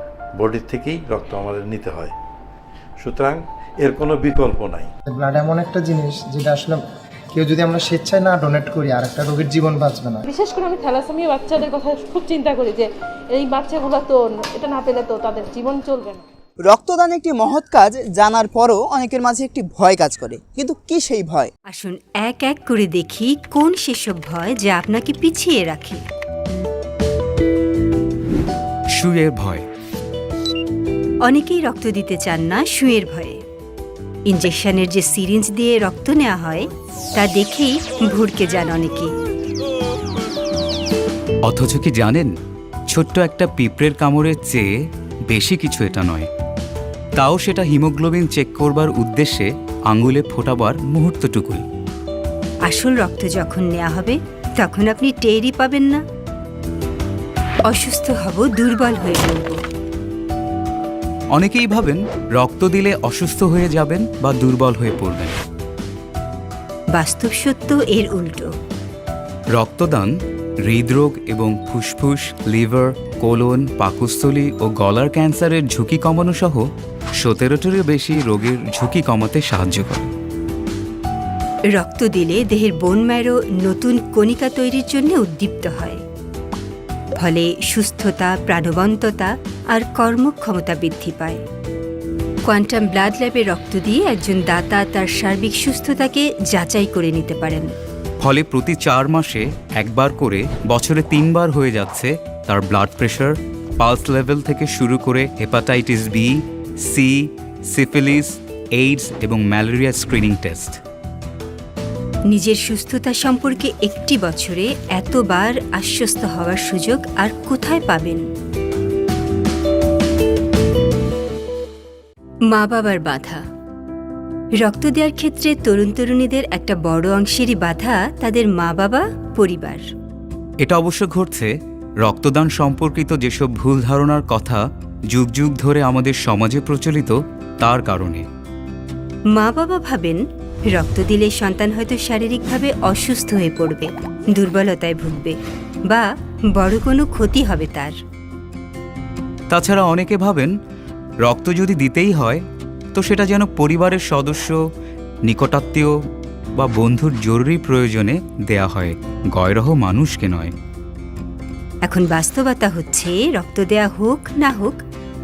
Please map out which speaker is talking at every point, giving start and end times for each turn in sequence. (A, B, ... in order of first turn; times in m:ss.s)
0:00.4-0:02.1 A
0:03.0-0:04.9 A
0:05.1-0:10.2 B
0:10.3-0:16.2 C
0:16.6-0:21.5 D
0:21.7-0:26.0 E
0:28.9-0:29.6 F
0:31.2-0:33.4 E
0:34.3-0:39.2 E
0:41.4-0:42.4 F
0:42.9-0:46.3 F
0:47.2-0:51.6 F
0:52.6-0:56.0 E
0:57.6-0:59.6 E
1:01.3-1:05.4 F
1:06.9-1:08.5 E
1:09.5-1:10.1 F
1:10.6-1:16.7 F
1:17.2-1:20.1 F
1:21.7-1:26.0 E
1:27.2-1:31.4 E
1:32.4-1:37.7 E
1:38.2-1:50.8 F
1:52.3-1:58.2 E
2:02.5-2:03.4 E
2:04.6-2:09.8 E
2:10.6-2:18.3 F
2:19.3-2:25.4 E
2:25.9-2:27.9 E
2:29.5-2:30.5 F
2:31.2-2:32.4 F
2:32.9-2:34.6 F
2:35.2-2:36.0 F
2:36.6-2:40.5 F
2:41.8-2:44.8 E